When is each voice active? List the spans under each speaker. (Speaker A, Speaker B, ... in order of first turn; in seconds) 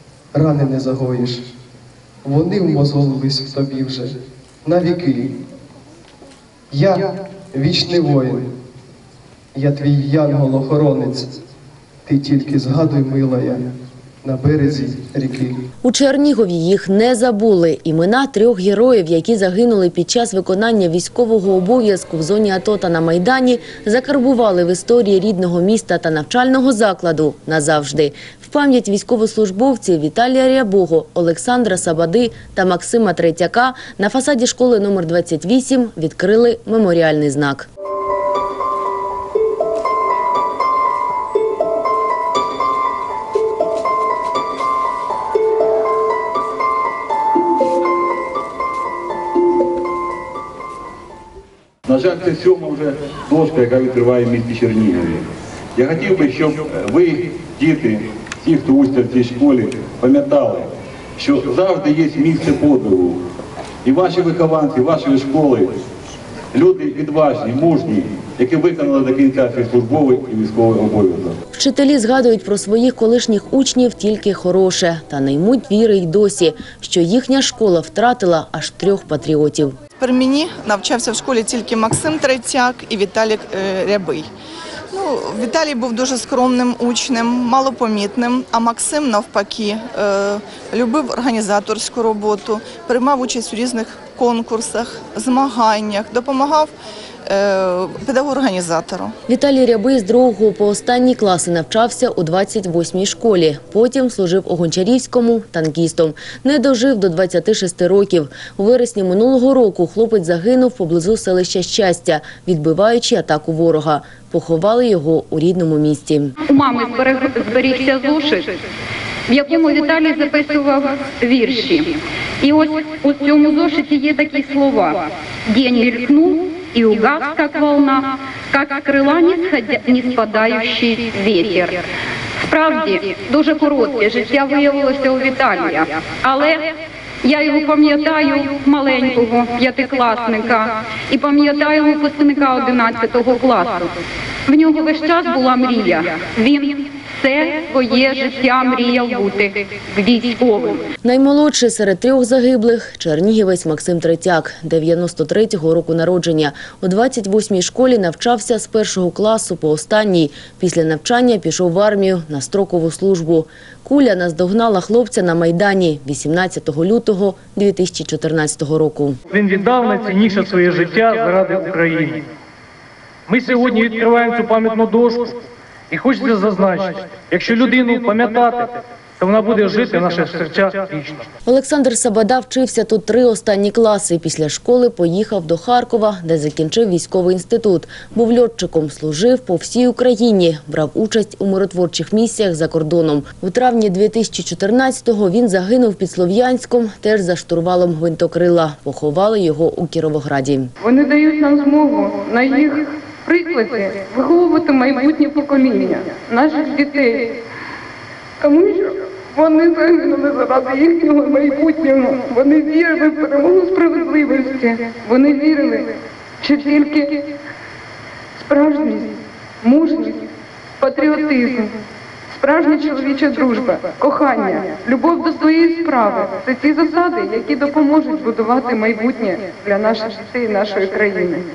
Speaker A: 0.3-1.4, 2.2-4.1, 4.6-5.3, 6.7-8.4, 9.5-11.3, 12.1-13.6, 14.2-15.6
Speaker B: 15.8-37.7, 71.5-79.8, 99.3-116.3, 151.0-169.2, 181.4-200.7
Speaker C: 51.9-55.2, 55.8-63.2, 63.8-65.7, 66.5-71.4
Speaker D: 80.0-84.3, 84.9-96.7, 97.2-99.1
Speaker E: 116.5-118.6, 119.3-131.8, 132.4-136.7, 137.2-143.9, 144.5-150.9
Speaker F: 169.3-172.2, 173.3-175.4, 175.9-181.3
Speaker G: 200.8-207.4, 208.4-217.2, 218.4-219.1, 219.6-220.2, 220.8-221.7, 222.3-231.4